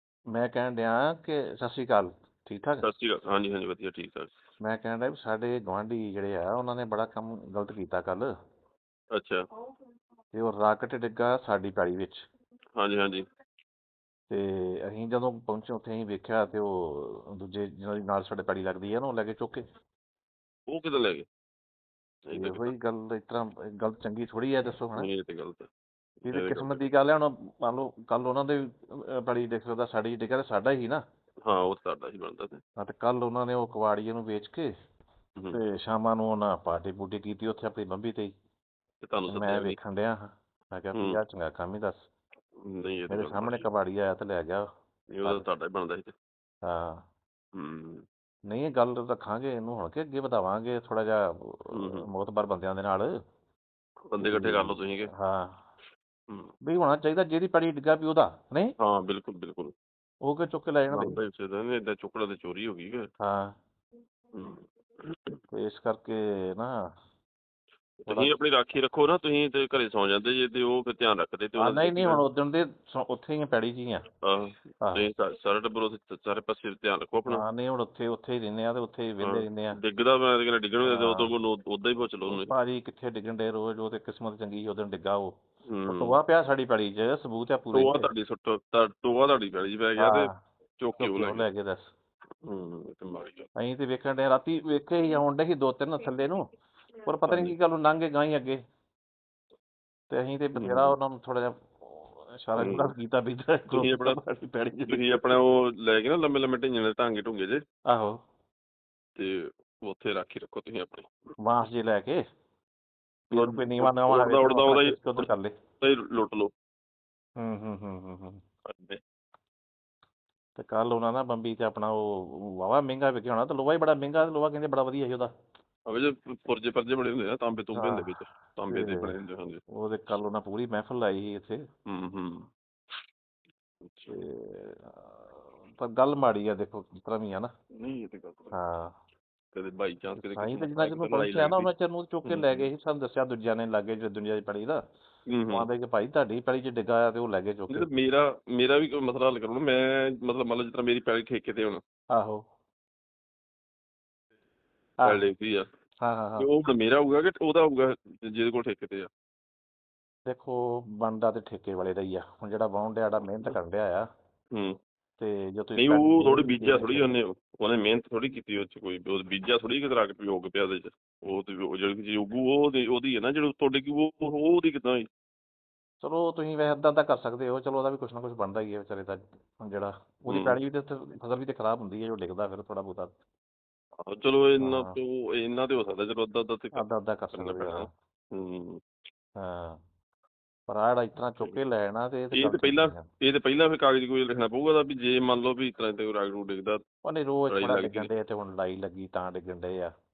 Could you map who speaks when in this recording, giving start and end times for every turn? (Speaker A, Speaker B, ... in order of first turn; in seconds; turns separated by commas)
Speaker A: 0.3-2.9, Speaker B: 2.8-4.3, Speaker A: 4.7-8.3, Speaker B: 9.1-9.4, Speaker A: 10.3-12.2, Speaker B: 12.8-13.2, Speaker A: 14.3-19.6, Speaker B: 20.7-21.3, Speaker B: 22.3-22.7, Speaker A: 22.3-25.1, Speaker B: 25.0-25.7, Speaker A: 26.2-31.0, Speaker B: 26.3-26.8, Speaker B: 31.4-32.6, Speaker A: 32.8-34.7, Speaker A: 35.5-38.3, Speaker B: 39.0-39.8, Speaker A: 39.3-42.0, Speaker B: 40.9-41.2, Speaker B: 42.6-43.7, Speaker A: 43.1-44.6, Speaker B: 45.1-46.1, Speaker A: 46.6-47.0, Speaker B: 47.5-48.0, Speaker A: 48.5-53.1, Speaker B: 51.7-52.1, Speaker B: 54.1-55.1, Speaker A: 54.2-55.6, Speaker A: 56.6-58.7, Speaker B: 58.8-59.7, Speaker A: 60.2-61.2, Speaker B: 60.9-63.1, Speaker A: 63.2-63.6, Speaker B: 64.3-65.4, Speaker A: 65.5-66.7, Speaker B: 68.0-72.2, Speaker A: 68.1-68.4, Speaker A: 71.6-74.0, Speaker B: 74.2-77.4, Speaker A: 74.8-75.1, Speaker A: 77.3-79.8, Speaker B: 79.2-82.5, Speaker A: 80.8-81.3, Speaker A: 82.3-85.3, Speaker B: 85.7-86.2, Speaker A: 85.9-88.1, Speaker B: 87.7-91.5, Speaker A: 90.0-90.3, Speaker A: 91.0-91.9, Speaker B: 92.5-93.5, Speaker A: 93.6-96.4, Speaker A: 97.1-98.6, Speaker B: 97.3-97.5, Speaker A: 100.1-105.3, Speaker B: 100.5-101.0, Speaker B: 102.6-102.9, Speaker B: 103.7-104.2, Speaker B: 104.9-107.6, Speaker A: 107.9-108.2, Speaker B: 109.2-111.1, Speaker A: 111.4-112.2, Speaker A: 113.3-115.5, Speaker B: 113.3-115.3, Speaker B: 115.8-116.5, Speaker A: 117.4-118.4, Speaker B: 118.7-119.0, Speaker A: 120.6-125.3, Speaker B: 125.9-129.6, Speaker A: 127.8-128.1, Speaker A: 128.7-129.1, Speaker A: 129.7-131.6, Speaker B: 131.9-132.5, Speaker B: 133.8-134.2, Speaker A: 134.1-137.5, Speaker B: 137.8-138.5, Speaker A: 138.5-138.9, Speaker B: 139.5-141.7, Speaker A: 140.2-144.8, Speaker B: 142.3-142.7, Speaker B: 145.3-145.7, Speaker A: 145.5-147.9, Speaker B: 147.7-151.8, Speaker A: 152.1-152.4, Speaker B: 155.1-155.7, Speaker A: 156.0-156.5, Speaker B: 156.4-159.1, Speaker A: 160.3-164.1, Speaker A: 165.2-167.1, Speaker B: 165.8-175.1, Speaker A: 176.0-183.2, Speaker B: 180.3-180.6, Speaker B: 184.1-188.8, Speaker A: 184.6-185.0, Speaker A: 186.8-187.9, Speaker A: 189.4-189.8, Speaker A: 190.7-193.1, Speaker B: 192.3-196.8, Speaker A: 197.0-199.9, Speaker B: 197.5-198.1